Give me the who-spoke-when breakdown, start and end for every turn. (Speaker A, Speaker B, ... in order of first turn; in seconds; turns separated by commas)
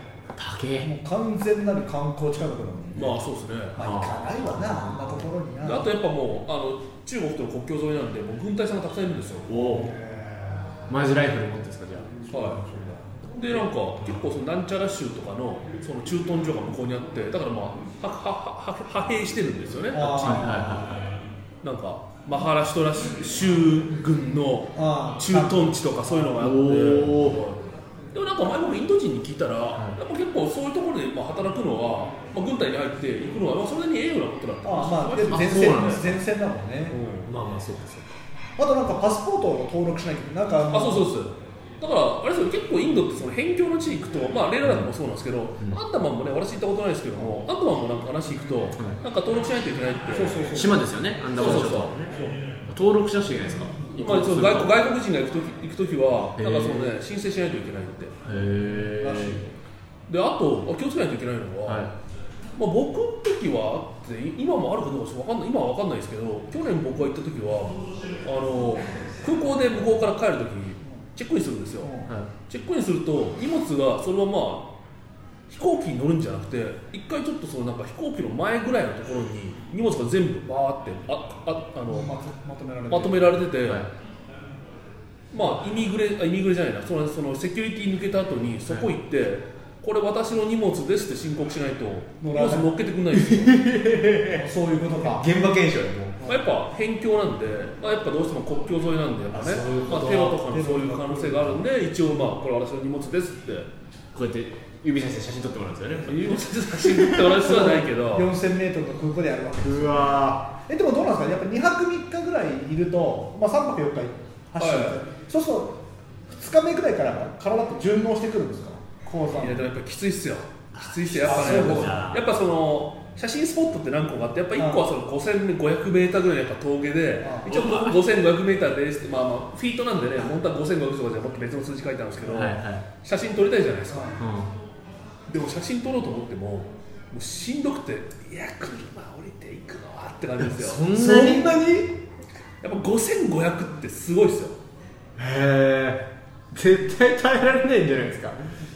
Speaker A: 0.4-0.9, Speaker B: 0.8-3.2, Speaker C: 2.9-3.8, Speaker B: 3.7-5.9, Speaker A: 3.8-5.2, Speaker C: 5.6-9.5, Speaker A: 9.5-9.9, Speaker B: 9.5-10.8, Speaker A: 10.9-12.1, Speaker B: 12.3-13.1, Speaker C: 12.3-12.6, Speaker C: 13.3-20.5, Speaker B: 19.9-21.1, Speaker A: 20.2-21.1, Speaker C: 21.6-27.6, Speaker B: 24.8-26.4, Speaker A: 26.4-27.4, Speaker C: 28.1-36.1, Speaker B: 34.6-37.0, Speaker A: 35.3-36.1, Speaker C: 36.9-37.3, Speaker A: 37.3-38.2, Speaker B: 38.6-41.2, Speaker C: 40.7-50.5, Speaker A: 44.6-44.9, Speaker B: 50.1-50.8, Speaker A: 50.5-52.1, Speaker C: 51.4-52.0, Speaker B: 52.1-52.4, Speaker A: 52.7-54.7, Speaker C: 54.0-58.2, Speaker A: 56.4-57.0, Speaker A: 58.2-59.4, Speaker B: 58.7-59.5, Speaker C: 60.1-61.9, Speaker A: 61.7-61.9, Speaker C: 62.6-74.7, Speaker B: 71.8-72.1, Speaker C: 75.5-82.2, Speaker B: 81.9-83.4, Speaker C: 82.9-83.9, Speaker A: 83.6-83.9, Speaker C: 85.3-93.6, Speaker B: 92.2-92.7, Speaker A: 93.1-94.5, Speaker B: 94.3-95.3, Speaker A: 95.0-96.2, Speaker C: 96.2-103.7, Speaker A: 99.3-100.3, Speaker B: 100.3-101.7, Speaker A: 104.1-107.3, Speaker C: 106.1-108.3, Speaker B: 107.2-119.7, Speaker A: 109.7-110.4, Speaker C: 114.6-115.0, Speaker C: 119.3-134.2, Speaker A: 120.7-122.2, Speaker B: 121.2-122.1, Speaker B: 124.6-124.9, Speaker B: 127.2-127.5, Speaker A: 127.5-128.0, Speaker A: 132.2-132.8, Speaker B: 133.9-134.2, Speaker A: 134.2-134.5, Speaker C: 135.3-140.9, Speaker A: 140.4-141.7, Speaker B: 140.9-141.9, Speaker C: 142.6-144.6, Speaker A: 145.2-148.5